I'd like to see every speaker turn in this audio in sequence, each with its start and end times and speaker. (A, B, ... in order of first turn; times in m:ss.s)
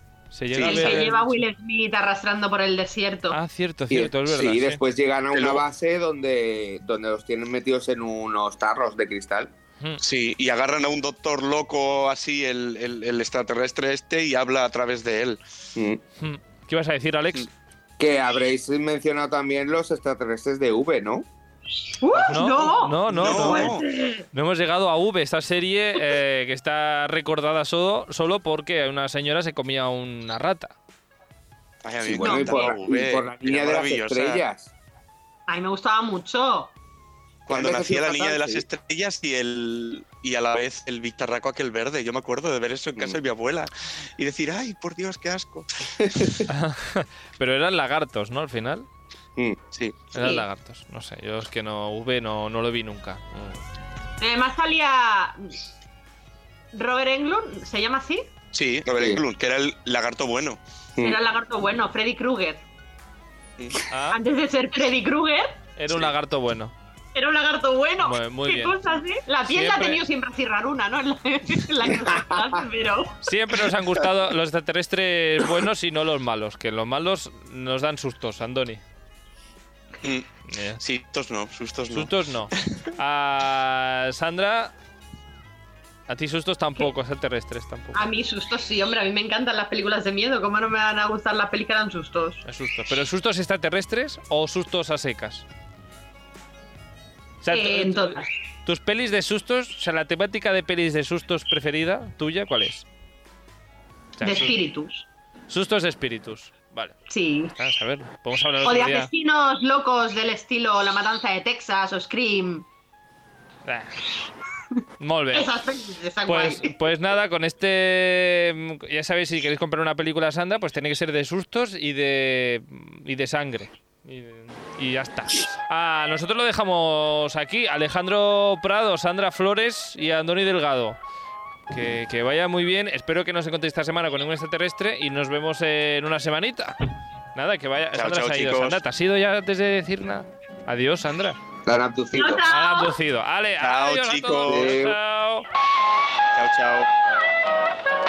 0:00.3-0:01.4 A
0:00.5-0:01.1 B
0:00.6-0:03.4 C
0:03.3-0:04.8 A
0:03.9-0:09.5 D
0:05.3-0:05.6 B
0:10.0-0:15.4 B
0:16.2-0:17.5 A
0:18.0-0:21.2 D
0:22.0-0:24.2 C
0:22.3-0:23.7 A
0:23.1-0:23.8 B
0:24.3-0:30.7 A
0:31.8-0:34.4 B
0:32.0-0:34.7 D
0:32.2-0:32.7 C
0:35.5-0:36.7 C
0:37.5-0:46.3 B
0:37.5-0:38.6 D
0:46.5-0:48.9 A
0:49.7-0:50.0 B
0:50.1-0:53.6 A
0:54.2-0:55.6 C
0:56.7-0:58.2 C
0:58.5-1:00.6 B
0:58.9-0:59.2 D
1:01.0-1:02.6 C
1:03.9-1:04.2 A
1:04.1-1:05.6 C
1:05.8-1:06.7 A
1:07.1-1:13.2 C
1:08.0-1:08.7 A
1:09.5-1:10.0 A
1:13.2-1:18.8 A
1:20.0-1:20.3 B
1:20.5-1:20.8 A
1:20.8-1:22.6 B
1:21.9-1:24.7 A
1:26.1-1:28.0 A
1:27.9-1:32.4 C
1:32.4-1:35.4 A
1:37.4-1:42.8 A
1:37.5-1:38.3 C
1:44.2-1:44.6 A
1:44.2-1:45.0 C
1:45.5-1:46.9 A
1:47.1-1:47.5 C
1:47.6-1:49.1 A
1:48.6-1:52.6 C
1:53.6-1:54.1 A
1:55.0-1:55.5 A
1:55.3-1:56.7 C
1:56.3-2:11.0 A
2:11.7-2:21.4 A
2:17.9-2:18.8 B
2:21.6-2:22.4 D
2:22.1-2:23.0 C
2:22.5-2:25.4 A
2:23.6-2:24.8 B
2:24.4-2:24.9 D
2:26.3-2:26.9 B